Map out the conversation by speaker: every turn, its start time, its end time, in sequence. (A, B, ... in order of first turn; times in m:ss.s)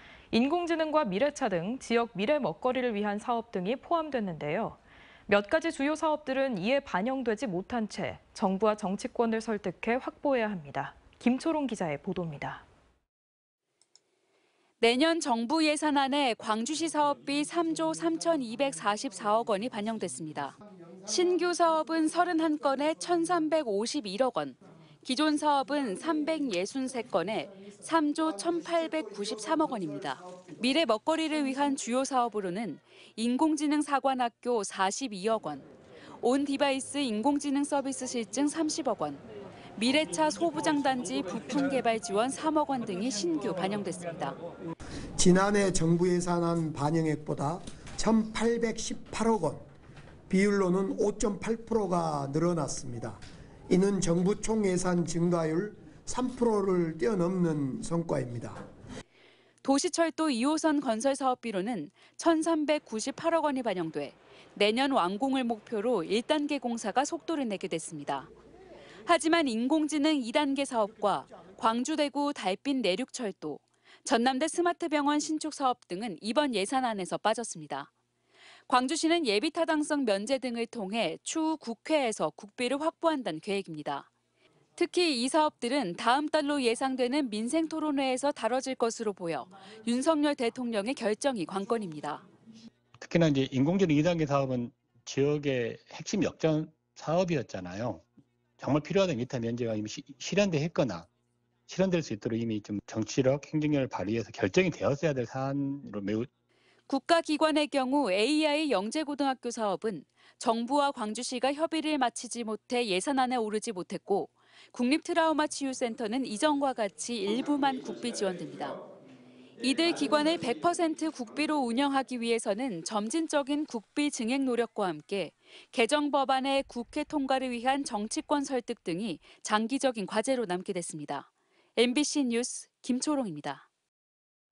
0:00.3-0:12.6 A
0:14.8-0:35.7 B
0:36.2-0:39.2 B
0:39.8-0:44.4 B
0:45.2-0:49.6 C
0:50.3-0:58.6 C
0:59.6-1:08.3 B
1:09.0-1:17.9 B
1:18.7-1:24.1 B
1:24.8-1:32.2 B
1:33.0-1:38.0 D
1:38.6-1:41.1 D
1:41.7-1:46.3 D
1:46.9-1:58.8 B
1:59.6-2:13.6 B